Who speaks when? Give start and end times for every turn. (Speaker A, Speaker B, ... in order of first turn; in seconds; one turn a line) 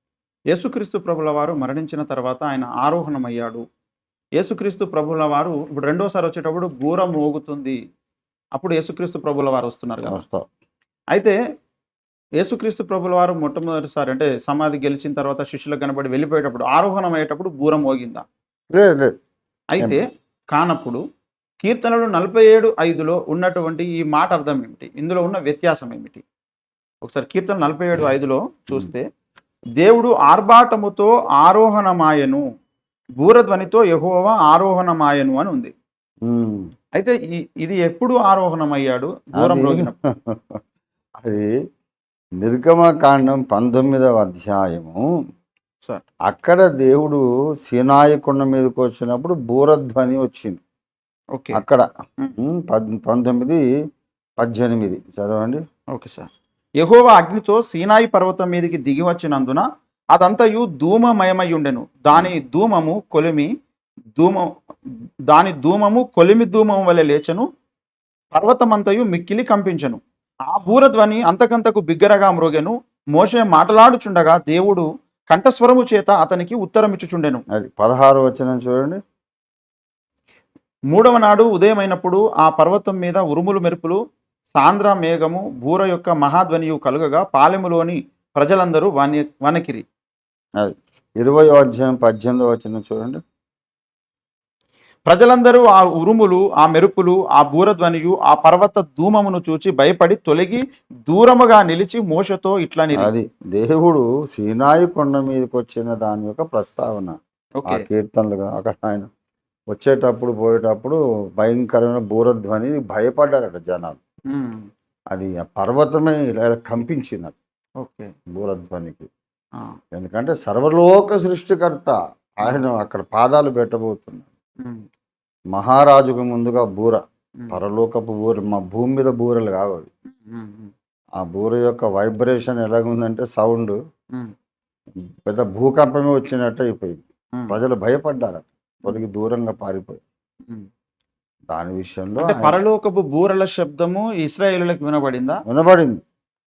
Speaker A: 0.5-3.6
Speaker A: 4.4-7.8
Speaker A: 8.6-10.2
Speaker B: 10.1-10.5
Speaker A: 11.1-11.4
Speaker A: 12.4-18.2
Speaker B: 18.7-19.1
Speaker A: 19.7-21.0
Speaker A: 21.6-26.2
Speaker A: 27.0-29.1
Speaker A: 29.8-32.4
Speaker A: 33.2-35.7
Speaker B: 36.2-36.7
Speaker A: 37.0-40.0
Speaker B: 39.4-40.6
Speaker B: 41.2-41.5
Speaker B: 42.4-45.0
Speaker B: 46.3-50.6
Speaker A: 51.4-51.6
Speaker B: 51.5-51.9
Speaker B: 52.4-53.6
Speaker B: 54.4-55.6
Speaker A: 55.9-56.3
Speaker A: 56.8-63.5
Speaker A: 64.2-64.5
Speaker A: 65.3-67.5
Speaker A: 68.3-77.4
Speaker B: 77.5-79.0
Speaker A: 80.9-84.0
Speaker A: 84.5-89.8
Speaker B: 90.6-93.2
Speaker A: 95.1-103.1
Speaker B: 103.0-109.1
Speaker A: 107.6-107.8
Speaker B: 109.7-114.0
Speaker A: 114.3-114.7
Speaker B: 115.1-117.4
Speaker A: 117.8-118.1
Speaker B: 118.3-119.1
Speaker B: 119.9-124.3
Speaker A: 124.6-124.9
Speaker B: 125.5-129.9
Speaker A: 130.1-130.7
Speaker B: 131.2-133.8
Speaker B: 135.0-140.0
Speaker B: 141.5-142.6
Speaker A: 142.2-145.4
Speaker B: 145.5-146.0